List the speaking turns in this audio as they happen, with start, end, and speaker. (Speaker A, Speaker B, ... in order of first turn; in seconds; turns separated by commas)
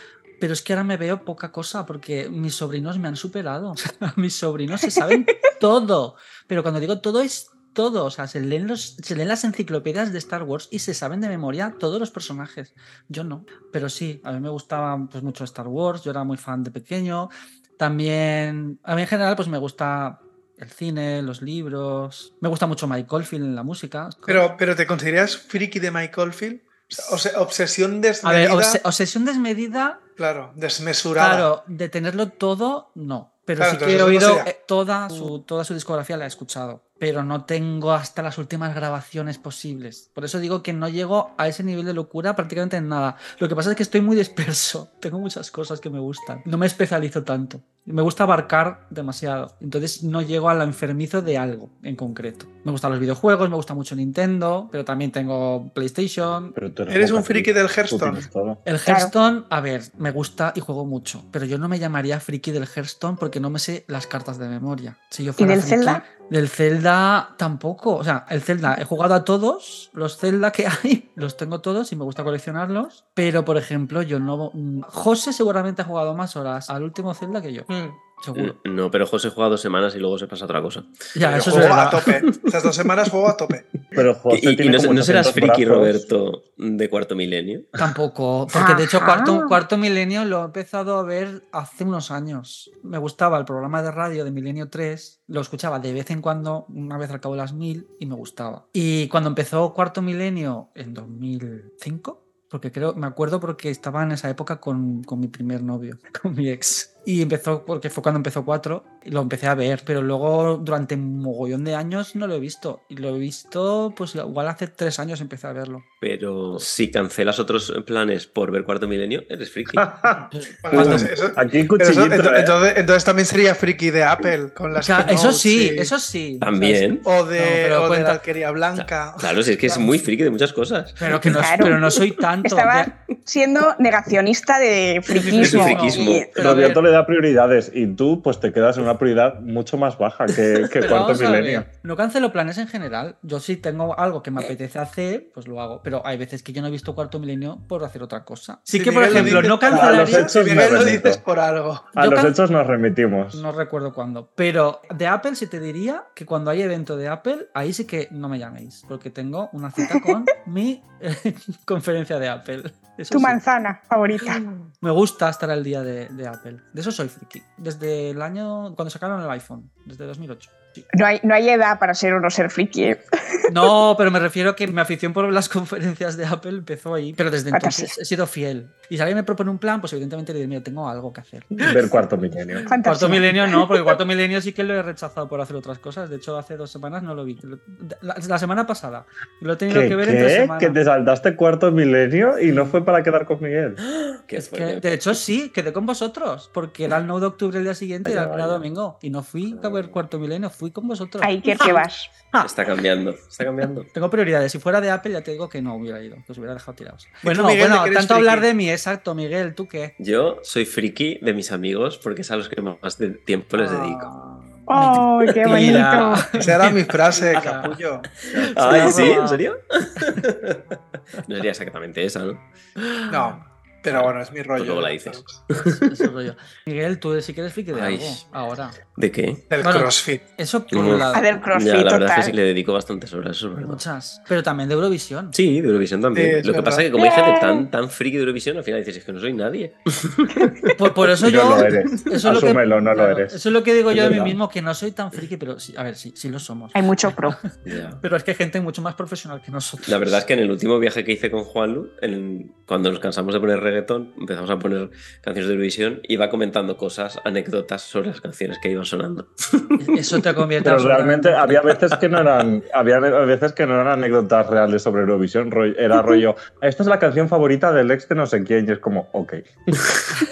Speaker A: 0.4-24.5, Speaker B: 24.3-28.8, Speaker A: 28.2-30.0, Speaker B: 30.2-31.5, Speaker A: 31.2-56.5, Speaker B: 33.6-34.5, Speaker C: 56.5-58.6, Speaker B: 56.9-58.2, Speaker A: 58.6-77.7, Speaker D: 58.9-59.1, Speaker D: 65.4-66.0, Speaker B: 77.7-78.0, Speaker A: 78.2-78.5, Speaker E: 78.3-80.9, Speaker A: 81.1-82.1, Speaker B: 81.2-83.7, Speaker E: 81.5-82.5, Speaker C: 83.9-86.0, Speaker E: 84.3-87.7, Speaker A: 87.8-115.8, Speaker D: 88.5-89.6, Speaker E: 116.0-120.4, Speaker C: 119.7-122.5, Speaker B: 120.6-125.9, Speaker A: 120.7-121.1, Speaker A: 124.7-128.2, Speaker E: 126.4-127.0, Speaker B: 127.0-129.4, Speaker E: 128.7-131.8, Speaker A: 131.0-132.9, Speaker D: 131.3-131.8, Speaker D: 132.4-136.3, Speaker A: 135.1-136.8, Speaker E: 135.3-136.3, Speaker C: 136.3-141.7, Speaker A: 140.8-150.3, Speaker B: 148.7-152.0, Speaker C: 149.1-151.2, Speaker C: 151.9-153.4, Speaker A: 152.0-152.3, Speaker A: 153.3-163.4, Speaker D: 163.1-164.4, Speaker A: 164.8-170.8, Speaker D: 170.9-173.7, Speaker A: 173.5-181.7, Speaker D: 177.5-177.9, Speaker C: 181.6-182.7, Speaker D: 182.7-183.7, Speaker A: 182.8-190.8, Speaker C: 189.7-193.8, Speaker A: 192.5-192.7, Speaker E: 193.8-195.0, Speaker A: 194.3-202.5, Speaker C: 198.0-198.6, Speaker E: 199.6-199.9, Speaker D: 201.2-202.1, Speaker E: 202.4-203.9, Speaker A: 203.9-209.9, Speaker B: 207.2-208.5, Speaker E: 210.0-214.1, Speaker A: 213.5-217.8, Speaker D: 214.7-216.3, Speaker E: 215.3-215.7, Speaker B: 216.3-218.1, Speaker E: 218.2-223.3, Speaker A: 218.3-219.4, Speaker B: 218.7-219.2, Speaker B: 223.1-225.4, Speaker E: 223.9-225.9, Speaker A: 225.7-228.8, Speaker E: 227.7-228.2, Speaker E: 228.9-229.4, Speaker B: 229.5-230.2, Speaker A: 229.6-231.3, Speaker E: 230.7-233.8, Speaker D: 231.1-232.3, Speaker A: 233.6-235.4, Speaker E: 235.3-240.7, Speaker B: 236.1-236.9, Speaker D: 236.9-237.6, Speaker A: 240.7-247.5, Speaker C: 241.2-243.4, Speaker C: 243.9-244.4, Speaker D: 246.7-247.4, Speaker E: 247.6-248.0, Speaker A: 248.0-250.2, Speaker E: 249.8-259.8, Speaker A: 259.8-261.8, Speaker C: 260.6-269.8